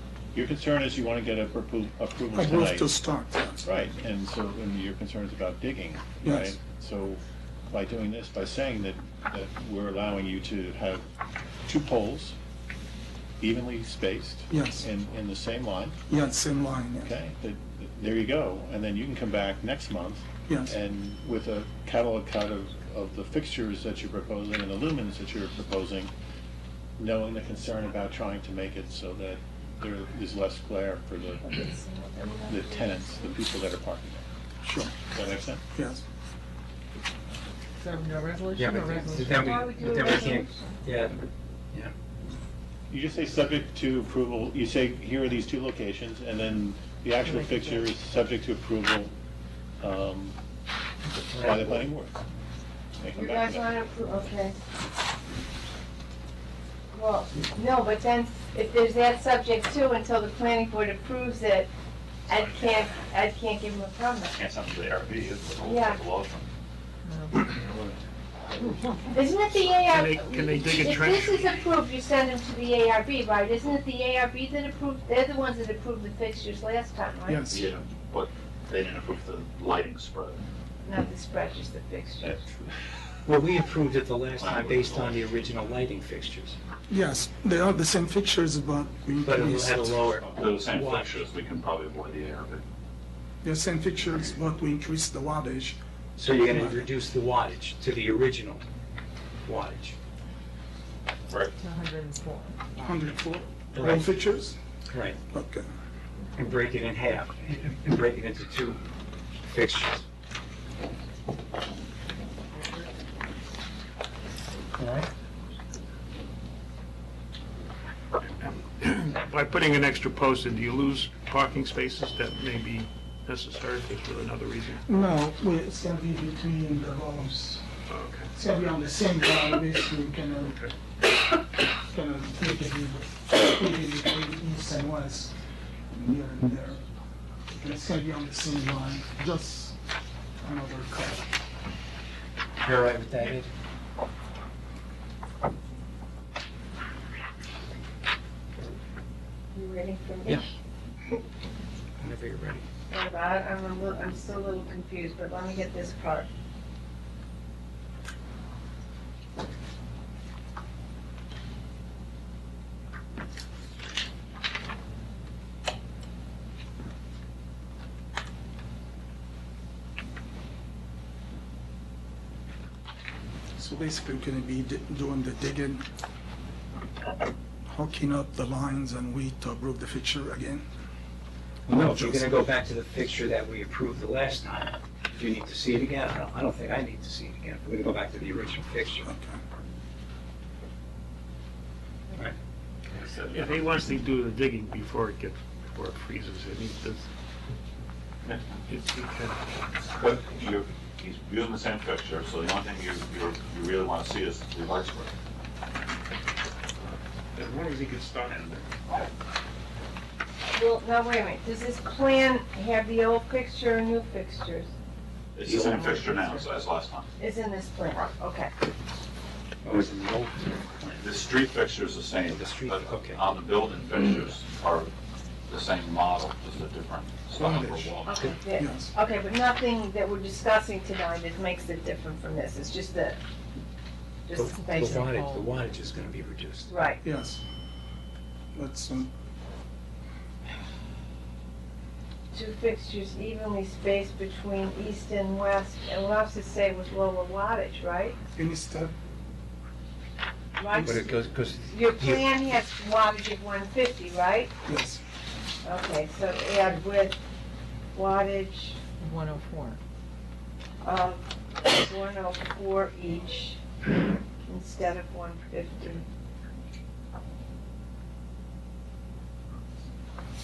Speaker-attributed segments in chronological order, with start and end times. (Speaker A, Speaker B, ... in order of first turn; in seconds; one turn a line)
Speaker A: 0.3-2.9
Speaker B: 2.3-3.7
Speaker A: 3.6-11.1
Speaker B: 6.2-6.6
Speaker A: 11.7-12.4
Speaker A: 13.4-16.0
Speaker B: 14.5-14.9
Speaker B: 16.1-17.1
Speaker A: 17.0-26.1
Speaker B: 20.5-20.8
Speaker A: 27.0-31.6
Speaker C: 31.5-33.4
Speaker A: 32.5-34.3
Speaker B: 34.6-35.0
Speaker A: 35.1-35.6
Speaker B: 35.8-36.0
Speaker D: 37.8-39.6
Speaker E: 38.5-41.2
Speaker C: 39.3-40.7
Speaker A: 42.9-49.1
Speaker D: 47.2-47.9
Speaker A: 49.8-50.4
Speaker E: 51.1-51.8
Speaker A: 51.4-52.2
Speaker A: 53.0-53.7
Speaker C: 53.1-54.5
Speaker C: 56.9-61.7
Speaker C: 62.3-64.4
Speaker F: 64.3-66.5
Speaker C: 65.6-66.0
Speaker D: 67.0-67.5
Speaker F: 67.3-68.0
Speaker C: 69.1-77.4
Speaker G: 69.9-71.5
Speaker B: 77.3-77.7
Speaker F: 77.5-80.4
Speaker C: 80.8-82.4
Speaker E: 83.2-86.6
Speaker F: 84.4-85.2
Speaker B: 86.9-90.0
Speaker E: 89.2-91.2
Speaker F: 90.3-92.6
Speaker B: 93.4-95.8
Speaker E: 96.2-98.7
Speaker B: 96.4-96.9
Speaker E: 99.5-100.0
Speaker D: 101.6-103.1
Speaker B: 102.8-104.6
Speaker E: 103.7-104.1
Speaker E: 104.9-105.2
Speaker B: 105.3-105.7
Speaker E: 106.3-108.8
Speaker E: 109.5-110.0
Speaker G: 118.8-124.8
Speaker B: 124.8-127.7
Speaker G: 127.9-128.3
Speaker B: 128.3-130.6
Speaker G: 130.4-130.7
Speaker B: 131.9-135.3
Speaker B: 135.9-136.8
Speaker B: 137.6-139.8
Speaker B: 140.4-141.3
Speaker E: 142.6-143.5
Speaker C: 149.5-150.4
Speaker E: 152.0-152.7
Speaker C: 152.9-156.3
Speaker B: 173.6-175.9
Speaker B: 177.7-180.7
Speaker E: 181.7-189.1
Speaker B: 181.7-182.4
Speaker B: 189.1-189.4
Speaker F: 192.9-193.7
Speaker G: 193.3-197.1
Speaker G: 198.7-199.4
Speaker F: 199.9-205.1
Speaker G: 207.3-208.6
Speaker F: 208.3-209.0
Speaker C: 210.5-214.7
Speaker F: 215.3-217.1
Speaker E: 215.4-216.4
Speaker C: 217.2-218.5
Speaker E: 219.6-221.0
Speaker F: 221.0-224.9
Speaker E: 222.3-223.2
Speaker F: 225.5-228.4
Speaker B: 227.3-228.0
Speaker C: 228.1-233.2
Speaker B: 228.6-228.9
Speaker C: 234.3-235.1
Speaker E: 234.3-236.8
Speaker D: 234.4-235.6
Speaker C: 236.7-237.0
Speaker B: 237.0-237.4
Speaker B: 238.5-239.1
Speaker C: 242.3-248.2
Speaker B: 248.4-248.9
Speaker C: 250.6-254.6
Speaker B: 250.8-251.1
Speaker E: 250.8-252.3
Speaker B: 254.7-255.0
Speaker C: 255.6-257.2
Speaker C: 257.9-258.8
Speaker D: 259.0-259.8
Speaker C: 260.8-263.6
Speaker C: 264.5-266.1